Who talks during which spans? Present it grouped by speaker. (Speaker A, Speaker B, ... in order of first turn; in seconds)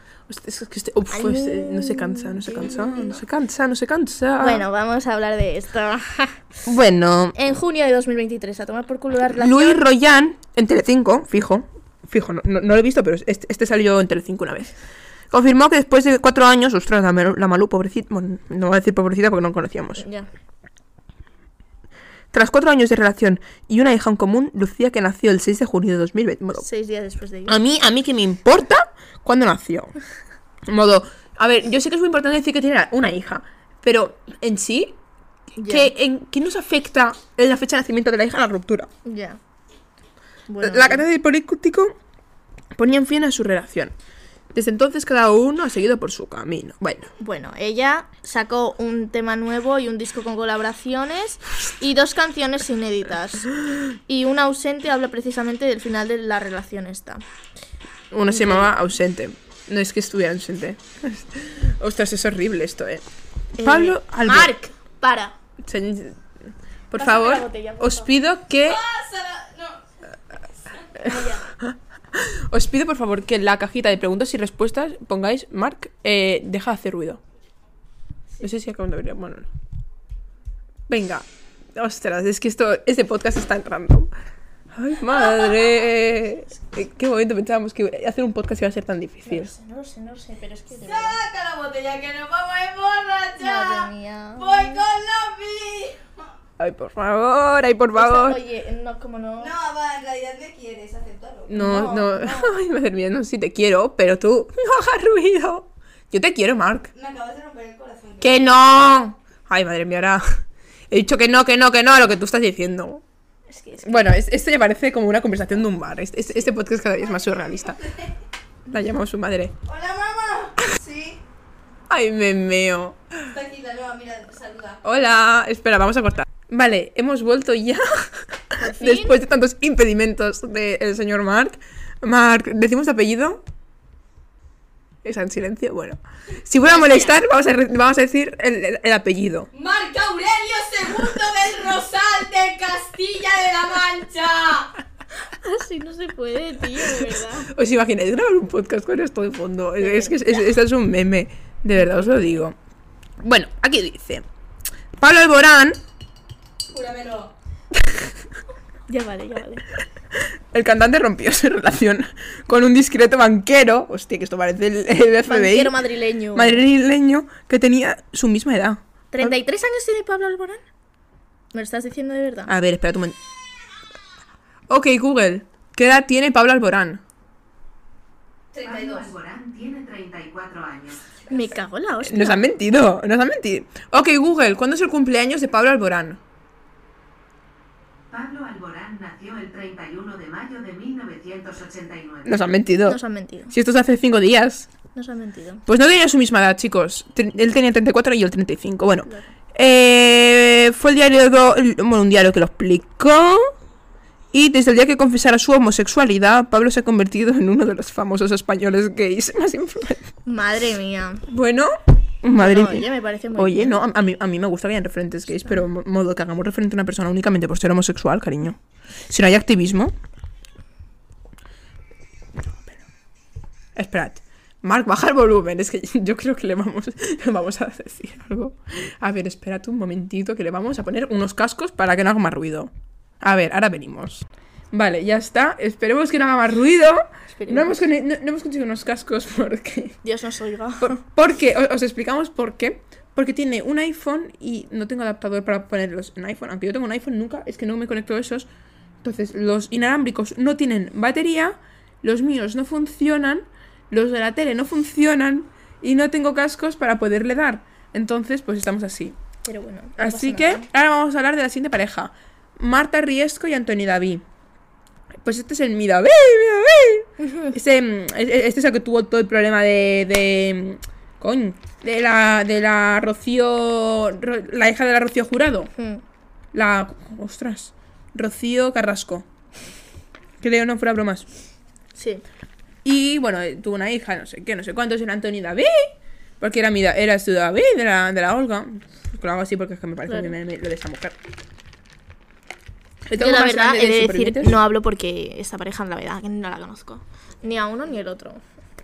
Speaker A: 0.3-4.6, 6.7-7.4, 9.3-14.7, 15.3-20.1, 22.3-26.7, 27.5-29.9, 30.7-35.0, 35.6-38.9, 40.6-41.9, 42.8-43.9, 44.5-47.1, 58.1-63.0, 63.6-64.5, 65.6-66.2, 66.9-68.8, 71.6-77.2, 78.4-79.5, 80.9-84.1, 84.7-89.5, 96.6-98.4, 101.5-106.9, 108.2-113.0, 113.8-117.8, 118.7-119.5, 121.9-123.0, 124.8-133.4, 135.0-139.5, 147.5-152.6, 153.2-154.3, 155.0-155.8, 160.5-165.8, 166.3-169.3, 172.5-173.2, 174.7-177.0, 182.0-186.2, 192.3-194.7, 195.7-203.5, 204.3-210.1, 211.3-219.9, 222.5-222.8, 223.8-232.7, 233.2-240.0, 240.8-248.5, 249.0-259.2, 260.0-264.2, 265.2-275.7, 276.5-279.3, 280.4-281.3, 282.8-291.2, 293.1-294.6
Speaker B: 1.1-3.2, 4.4-6.4, 7.3-9.9, 20.0-20.3, 26.6-27.6, 35.6-35.9, 39.0-39.4, 40.5-41.1, 47.2-57.2, 58.3-58.7, 63.6-65.4, 67.0-68.1, 71.0-71.5, 89.2-91.2, 93.4-94.8, 98.0-99.5, 101.5-102.5, 113.5-114.2, 128.6-129.2, 136.6-137.2, 145.3-147.5, 149.8-150.3, 151.7-152.4, 158.9-159.6, 165.2-166.6, 169.1-170.6, 171.5-172.5, 181.3-182.5, 192.9-193.5, 194.9-195.6, 199.1-199.3, 210.3-211.2, 212.3-213.8, 237.3-237.8, 240.0-241.0, 259.4-260.7, 267.2-267.6, 275.8-276.0, 281.9-282.2, 290.1-290.4, 293.2-298.4
Speaker C: 68.6-69.8, 90.8-96.3, 99.4-101.6, 106.9-108.5, 119.7-121.2, 123.3-124.8, 139.5-144.7, 156.7-157.3, 178.5-179.1
Speaker D: 178.6-181.0, 188.1-192.4